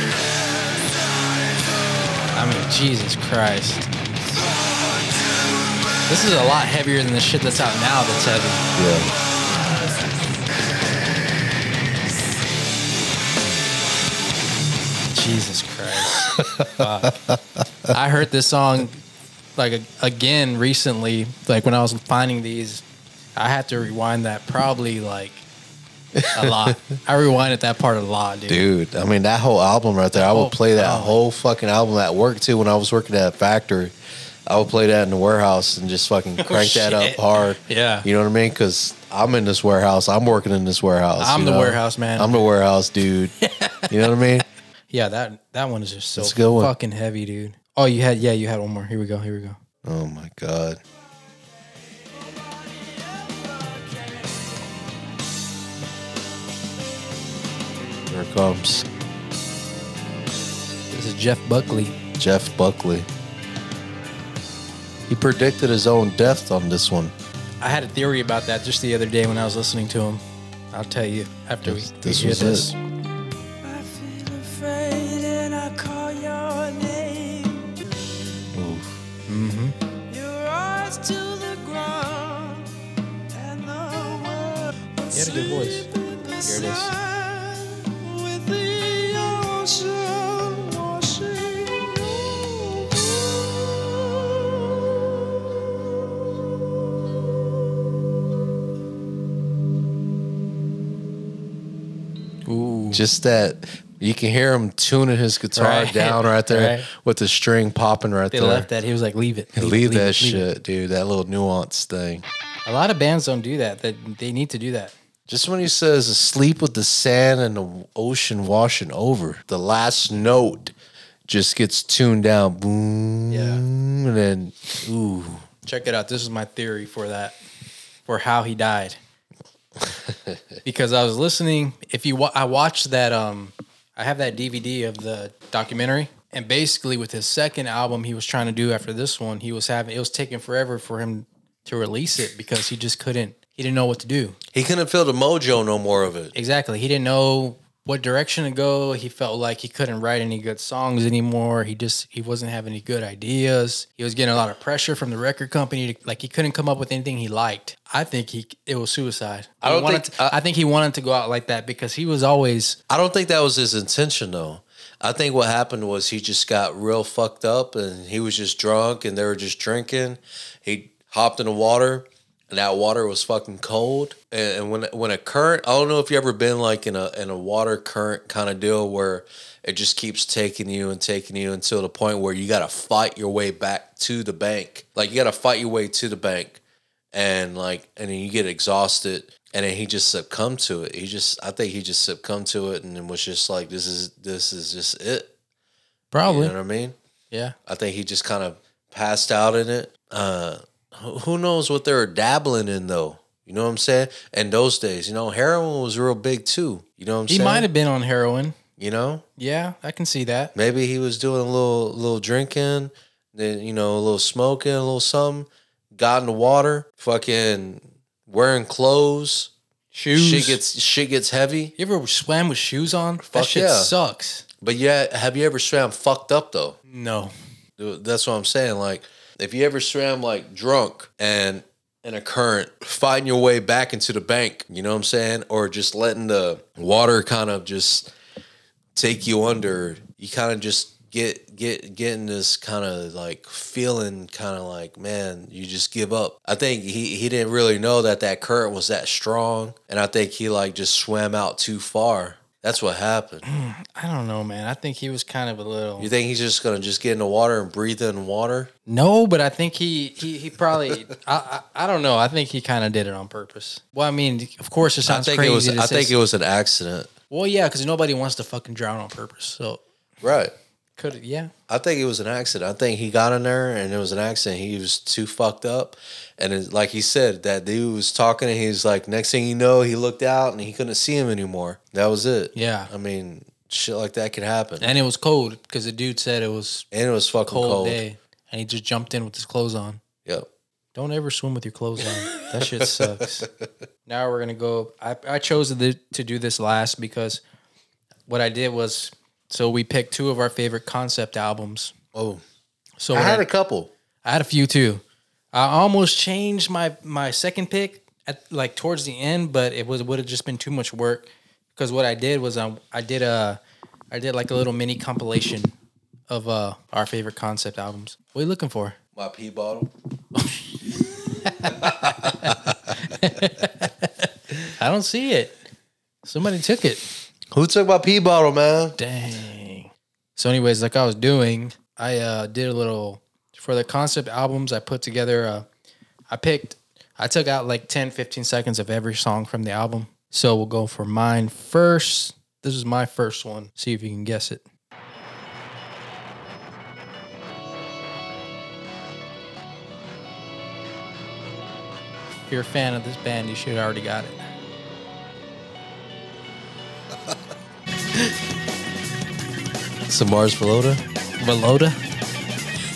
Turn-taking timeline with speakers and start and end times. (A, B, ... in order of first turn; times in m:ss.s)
0:02.3-0:03.9 A
0:06.1-0:08.7 A
0:08.8-0:09.1 B
0:15.1-0:17.2 A
0:16.2-0:17.6 B
0:17.9-0:19.0 A
0:19.6-0:22.8 A
0:23.4-0:25.4 A
0:26.2-0:26.8 B
0:26.3-0:28.7 A
0:28.5-0:33.9 B
0:30.1-0:31.2 A
0:34.5-0:43.3 B
0:36.4-0:38.1 A
0:41.2-0:42.4 A
0:43.4-0:44.2 A
0:43.9-0:44.4 B
0:44.9-0:49.6 A
0:46.2-0:46.7 B
0:49.8-0:50.8 B
0:51.9-0:54.6 C
0:58.1-0:58.9 B
1:00.9-1:02.0 A
1:02.2-1:03.1 B
1:05.1-1:07.1 B
1:07.6-1:12.8 A
1:11.6-1:12.7 B
1:13.6-1:18.5 C
1:18.5-1:19.0 B
1:19.3-1:19.8 A
1:20.1-1:22.8 C
1:23.3-1:34.7 C
1:25.1-1:25.9 A
1:26.4-1:26.9 A
1:42.5-1:43.0 A
1:42.9-1:48.7 B
1:45.5-1:46.9 A
1:48.3-1:50.5 A
1:49.6-1:52.3 B
1:52.7-1:55.0 A
1:55.3-2:00.8 B
2:01.3-2:05.5 B
2:03.3-2:03.6 A
2:05.7-2:07.4 A
2:08.1-2:09.0 A
2:09.8-2:10.4 B
2:10.6-2:24.4 A
2:24.5-2:26.3 B
2:26.4-2:42.8 A
2:39.6-2:40.4 B
2:42.9-3:06.6 B
3:07.1-3:15.3 B
3:16.1-3:16.6 A
3:16.2-3:17.0 B
3:17.3-3:17.6 A
3:17.7-3:27.7 B
3:27.3-3:28.6 A
3:28.8-3:29.2 B
3:29.4-3:30.5 A
3:30.5-3:39.5 B
3:39.9-3:40.6 A
3:40.1-3:41.7 B
3:41.8-3:44.5 A
3:43.2-3:43.9 B
3:44.6-3:46.8 B
3:46.9-3:47.3 A
3:47.8-3:58.1 B
3:59.0-4:13.4 B
4:13.4-4:16.1 A
4:16.0-4:18.7 B
4:18.9-4:26.1 A
4:25.0-4:27.1 B
4:27.3-4:29.8 A
4:30.2-4:30.5 B
4:31.0-4:31.5 A
4:31.7-4:44.9 B
4:42.6-4:42.9 A
4:44.8-4:46.9 A
4:46.9-4:48.0 B
4:47.5-4:50.0 A
4:51.0-4:53.5 A
4:52.6-4:53.7 B
4:54.1-4:57.4 A
4:58.3-5:01.9 A
5:02.1-5:02.4 B
5:03.0-5:03.5 A
5:03.1-5:03.9 B
5:04.2-5:13.6 A
5:14.1-5:15.7 A
5:16.3-5:19.0 A
5:19.2-5:19.9 B
5:20.4-5:25.6 A
5:21.6-5:22.7 B
5:26.2-5:27.0 A
5:27.5-5:29.0 B
5:29.0-5:35.6 A
5:36.3-5:44.6 A
5:52.5-5:54.4 A
6:00.1-6:01.0 B
6:01.4-6:02.0 A